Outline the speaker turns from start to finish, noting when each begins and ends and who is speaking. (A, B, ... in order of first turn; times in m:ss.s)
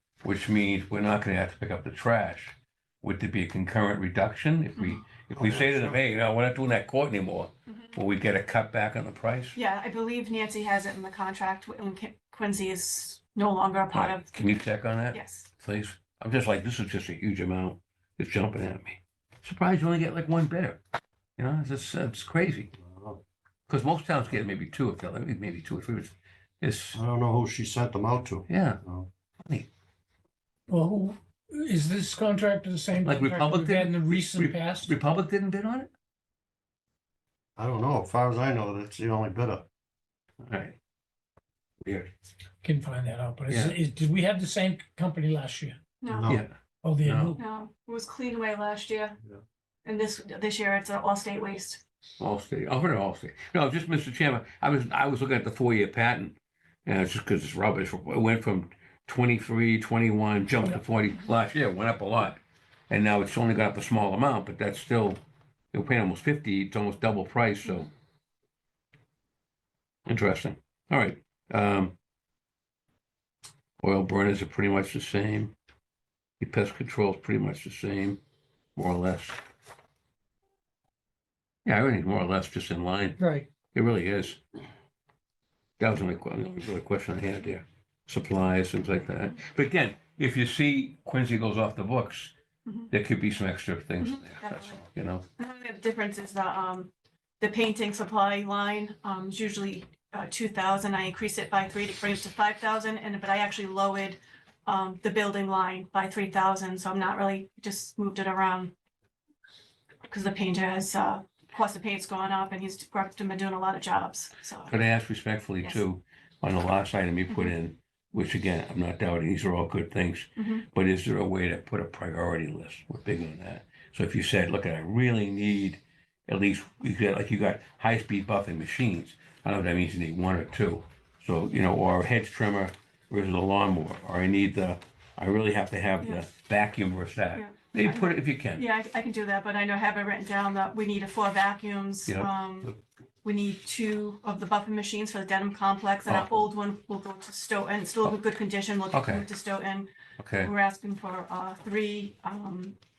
0:00.2-0:09.6 A
0:05.3-0:06.0 B
0:09.5-0:14.4 C
0:13.9-0:20.8 A
0:15.1-0:15.5 C
0:21.4-0:22.7 A
0:22.8-0:23.2 B
0:23.7-0:27.0 A
0:26.9-0:29.1 B
0:28.5-0:28.8 A
0:29.4-0:29.7 A
0:30.7-0:34.9 D
0:33.0-0:35.9 A
0:37.6-0:39.7 B
0:40.4-0:40.8 A
0:41.8-0:42.1 A
0:42.6-0:45.8 D
0:43.5-0:43.8 A
0:46.0-0:46.4 C
0:46.1-0:46.4 B
0:46.3-0:47.4 A
0:46.8-0:47.4 D
0:47.4-0:49.2 C
0:49.8-0:51.8 C
0:52.2-1:07.9 A
1:10.0-1:11.9 A
1:13.8-1:15.5 A
1:16.4-1:18.2 A
1:18.8-1:19.4 A
1:21.6-1:23.2 A
1:23.2-1:23.5 D
1:23.7-1:24.4 A
1:25.8-1:32.3 A
1:32.9-1:35.2 A
1:34.0-1:34.8 C
1:35.4-1:48.7 C
1:50.1-1:54.7 C
1:54.7-2:18.6 A
1:57.3-1:57.5 C
2:00.4-2:00.6 C
2:17.3-2:32.8 C
2:26.0-2:26.5 A
2:28.9-2:29.3 A
2:30.2-2:30.5 A